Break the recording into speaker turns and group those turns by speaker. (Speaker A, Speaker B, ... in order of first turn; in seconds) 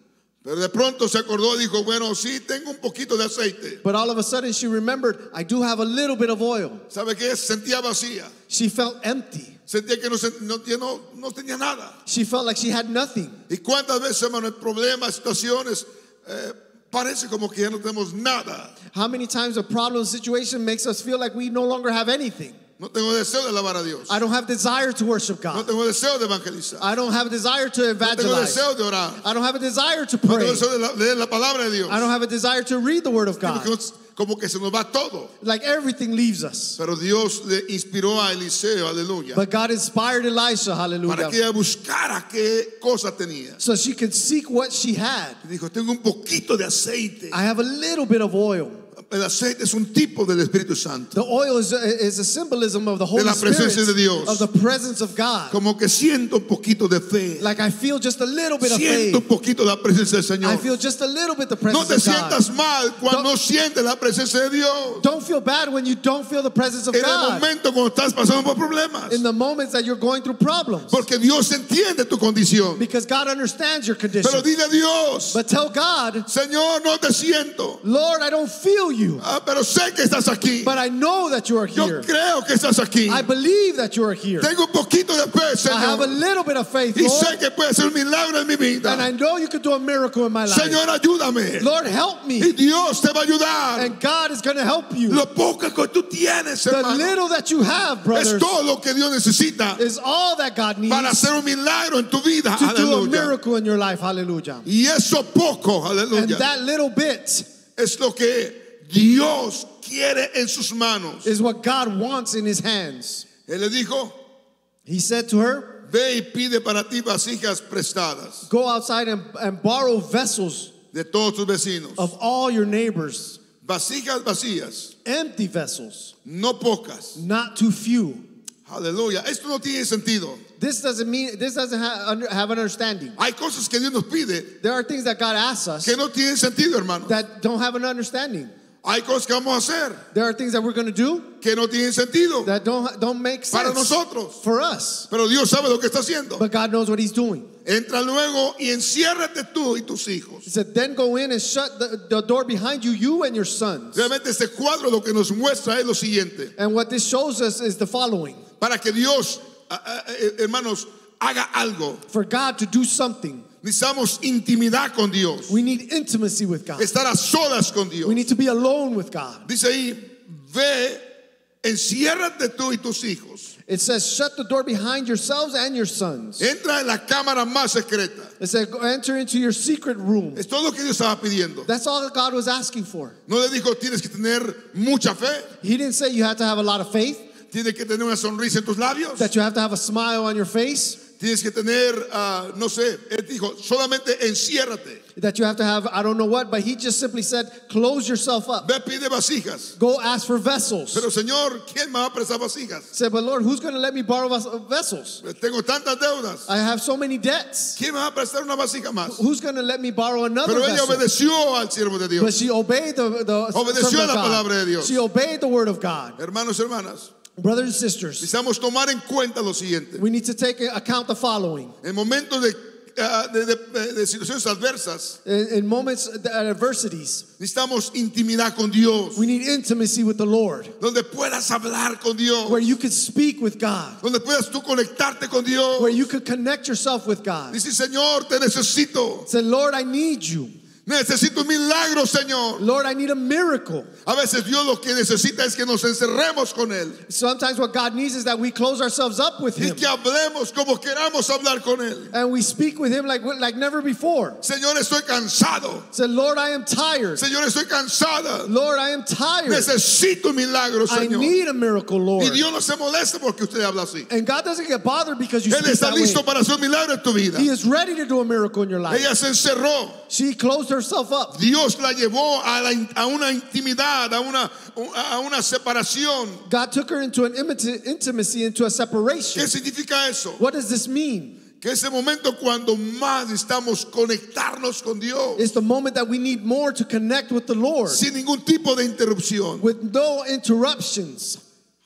Speaker A: 0.4-3.8, 6.9-8.3, 9.7-11.9, 13.5-18.7, 22.8-24.2, 25.5-26.9, 28.0-29.2, 30.2-32.1, 33.4-35.3, 36.8-39.4, 41.1-43.6, 45.4-47.4, 49.0-51.1, 53.1-54.4, 55.5-57.5, 58.6-60.7, 61.7-65.0, 66.9-69.2, 70.9-72.8, 74.2-75.4, 76.3-77.8, 79.2-80.8, 81.7-83.3, 84.4-86.2, 86.9-89.1, 90.5-91.7, 92.4-93.9, 95.1-97.1, 98.1-99.8, 100.9-103.3, 104.7-106.5, 107.8-111.3, 113.5-114.2, 115.9-118.5, 120.9-122.0, 123.6-124.9, 126.2-127.2, 128.7-130.4, 133.2-134.5, 135.8-137.2, 138.8-140.0, 141.4-142.5, 143.5-144.4, 145.1-146.4, 147.6-150.4, 153.9-156.5, 158.6-162.0, 163.6-165.6, 166.8-168.2, 169.4-171.0, 171.6-173.5, 176.4-178.3, 180.3-181.7, 183.3-185.5, 187.5-189.3, 191.2-195.0, 198.6-199.7, 200.9-202.9, 205.2-206.5, 207.8-209.2, 210.4-212.3, 213.5-215.0, 216.2-217.1, 218.2-220.0, 221.8-225.2, 227.4-229.2, 230.8-232.7, 234.0-236.0, 237.5-239.3, 240.8-242.6, 244.1-247.0, 249.6-252.1, 254.4-255.9, 257.1-258.5, 259.4-261.3, 262.2-264.1, 265.5-267.5, 268.9-270.0, 271.3-276.4, 279.3-280.4, 281.6-285.4, 287.9-289.6
Speaker B: 3.8-6.8, 8.5-9.6, 12.1-13.4, 18.9-22.6, 24.1-25.7, 26.8-28.6, 29.2-30.6, 31.9-33.7, 35.4-36.8, 39.3-41.4, 43.6-45.4, 47.3-48.8, 51.1-55.6, 57.4-59.2, 60.4-62.4, 65.0-67.5, 69.1-71.0, 72.8-74.5, 75.3-76.3, 77.8-79.2, 80.6-82.1, 83.0-84.5, 85.7-87.4, 88.8-90.8, 91.6-92.5, 93.8-95.2, 96.7-98.6, 99.8-101.3, 102.5-104.7, 106.1-107.5, 111.2-113.2, 114.8-115.8, 118.4-120.7, 122.0-123.4, 125.0-126.1, 127.2-128.2, 130.6-133.2, 134.6-135.9, 137.1-138.5, 140.1-141.3, 142.4-145.1, 146.3-147.5, 150.4-154.1, 156.6-158.4, 162.1-163.4, 165.5-166.9, 168.0-169.5, 173.7-176.4, 178.4-180.4, 181.7-183.2, 185.6-187.3, 189.2-191.0, 195.2-198.7, 199.8-201.1, 202.9-205.2, 206.5-207.8, 209.1-211.0, 212.2-216.2, 217.4-218.3, 220.0-221.7, 225.2-227.2, 229.1-230.7, 232.4-234.0, 235.8-237.6, 239.3-240.5, 242.6-243.9, 247.1-249.9, 252.1-254.4, 255.9-257.2, 258.4-259.7, 260.9-262.4, 264.1-266.2, 267.4-269.1, 270.1-271.4, 276.5-279.5, 280.4-281.4, 285.4-288.0, 289.6-291.4